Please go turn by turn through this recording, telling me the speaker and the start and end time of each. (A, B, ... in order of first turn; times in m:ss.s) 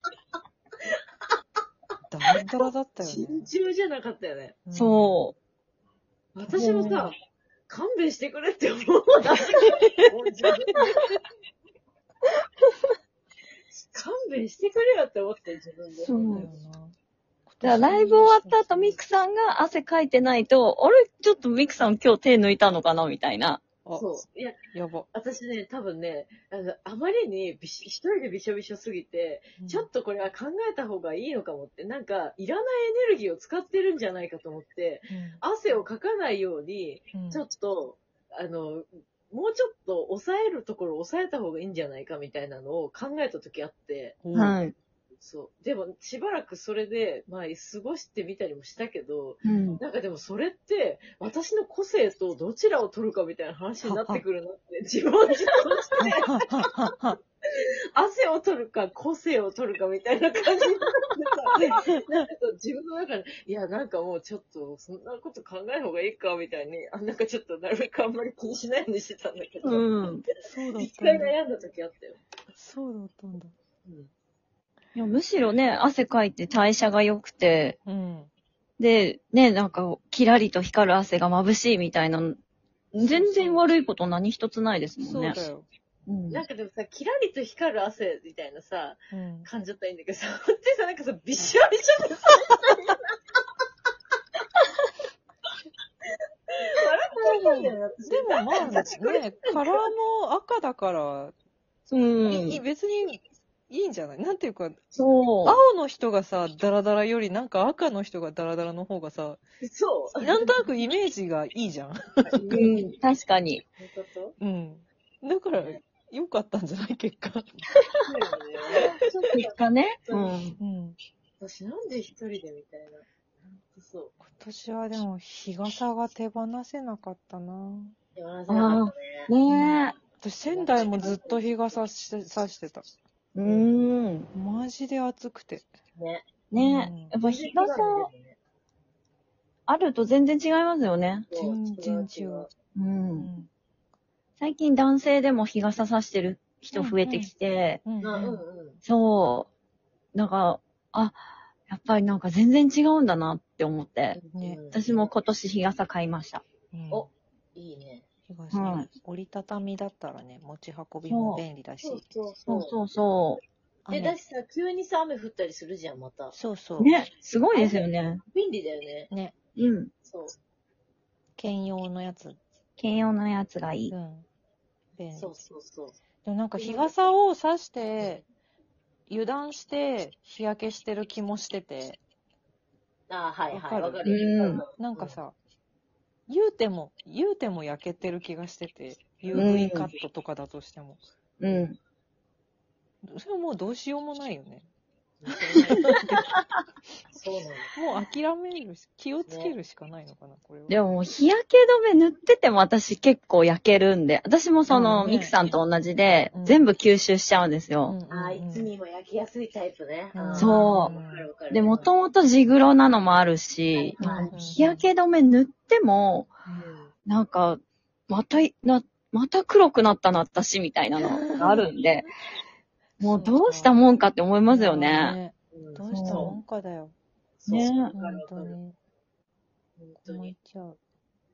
0:02.1-0:03.5 A
0:03.0-0:04.6 B
0:04.6-0:05.2 A
0:04.7-0:05.4 C
0:06.3-0:07.2 B
0:06.4-0:07.1 A
0:06.5-0:07.1 C
0:07.7-0:11.0 B
0:13.7-0:16.5 B
0:15.9-0:16.9 A
0:16.1-0:16.5 C
0:17.5-0:19.0 A
0:17.6-0:23.6 C
0:23.9-0:24.6 B
0:24.7-0:25.1 A
0:25.1-0:44.2 B
0:29.6-0:29.9 A
0:35.1-0:35.4 A
0:37.1-0:37.4 A
0:44.2-0:44.6 A
0:44.3-0:44.7 C
0:45.2-0:56.7 B
0:49.4-0:49.8 C
0:53.8-0:54.2 A
0:56.0-0:57.2 A
0:57.9-1:10.1 B
1:01.6-1:02.2 A
1:09.6-1:10.2 C
1:10.4-1:11.3 A
1:10.7-1:12.2 B
1:12.5-1:13.5 A
1:13.8-1:14.1 B
1:14.9-1:17.8 C
1:17.8-1:18.3 A
1:18.8-1:22.4 C
1:22.9-1:25.4 C
1:23.2-1:23.6 B
1:25.0-1:25.7 A
1:26.1-1:26.4 C
1:26.3-1:33.0 B
1:29.1-1:29.5 A
1:36.5-1:39.9 B
1:37.2-1:41.3 A
1:41.9-1:42.6 C
1:42.2-1:44.8 A
1:44.9-1:45.6 C
1:45.4-1:49.4 A
1:49.6-1:50.6 B
1:50.2-1:52.5 A
1:52.2-1:52.9 B
1:52.5-1:53.6 C
1:53.8-1:54.4 B
1:54.4-1:57.6 A
1:55.5-1:55.8 B
1:58.0-2:00.4 B
1:58.9-2:00.6 C
2:00.6-2:01.0 A
2:01.4-2:03.0 B
2:03.7-2:04.1 B
2:04.2-2:07.9 A
2:08.2-2:09.3 B
2:08.5-2:10.0 C
2:09.5-2:12.8 A
2:10.4-2:11.8 B
2:13.3-2:14.3 C
2:13.4-2:13.8 B
2:14.3-2:15.7 A
2:16.0-2:16.3 B
2:16.5-2:18.1 C
2:16.5-2:17.1 A
2:17.2-2:18.4 B
2:19.7-2:21.3 C
2:21.3-2:22.5 B
2:21.4-2:22.5 A
2:22.7-2:23.3 C
2:23.2-2:23.5 A
2:24.4-2:27.8 C
2:26.7-2:27.3 A
2:27.8-2:28.4 A
2:28.0-2:28.8 B
2:28.8-2:29.5 C
2:30.1-2:34.2 C
2:34.1-2:35.1 B
2:34.3-2:34.6 A
2:34.7-2:36.4 C
2:36.7-2:37.1 A
2:36.9-2:38.1 B
2:38.3-2:42.0 A
2:38.5-2:38.9 C
2:41.0-2:41.4 C
2:41.8-2:42.8 B
2:42.5-2:43.4 C
2:43.8-2:44.1 A
2:43.9-2:46.3 B
2:46.3-2:46.9 A
2:46.8-2:48.2 C
2:47.5-2:49.1 B
2:49.6-2:49.9 C
2:50.0-2:50.3 B
2:51.4-2:52.4 A
2:52.8-2:53.9 C
2:53.9-2:54.2 A
2:55.0-2:55.4 A
2:55.2-2:56.0 B
2:56.2-2:58.2 A
2:56.6-2:57.0 B
2:59.1-3:02.0 A
3:03.1-3:05.2 B
3:03.5-3:04.1 A
3:04.0-3:04.6 C
3:04.8-3:05.3 A
3:06.3-3:11.0 A
3:09.3-3:09.9 C
3:11.4-3:11.8 C
3:13.0-3:14.7 A
3:15.2-3:16.1 B
3:15.7-3:16.3 A
3:16.1-3:16.4 C
3:17.1-3:17.7 B
3:17.8-3:20.7 A
3:19.2-3:19.6 B
3:20.7-3:28.0 C
3:24.7-3:25.4 A
3:26.3-3:26.7 A
3:27.8-3:28.7 A
3:28.1-3:31.9 B
3:30.1-3:31.3 A
3:30.4-3:30.9 C
3:31.5-3:36.3 C
3:33.7-3:34.3 B
3:34.2-3:34.8 A
3:36.4-3:36.7 A
3:36.5-3:36.9 B
3:37.0-3:42.0 C
3:41.0-3:42.0 A
3:43.0-3:43.8 A
3:43.0-3:45.2 C
3:44.5-3:46.9 A
3:45.5-3:46.3 B
3:45.9-3:46.4 C
3:47.4-3:48.6 B
3:47.5-3:47.9 C
3:47.9-3:48.8 A
3:49.8-3:50.4 B
3:50.0-3:50.8 A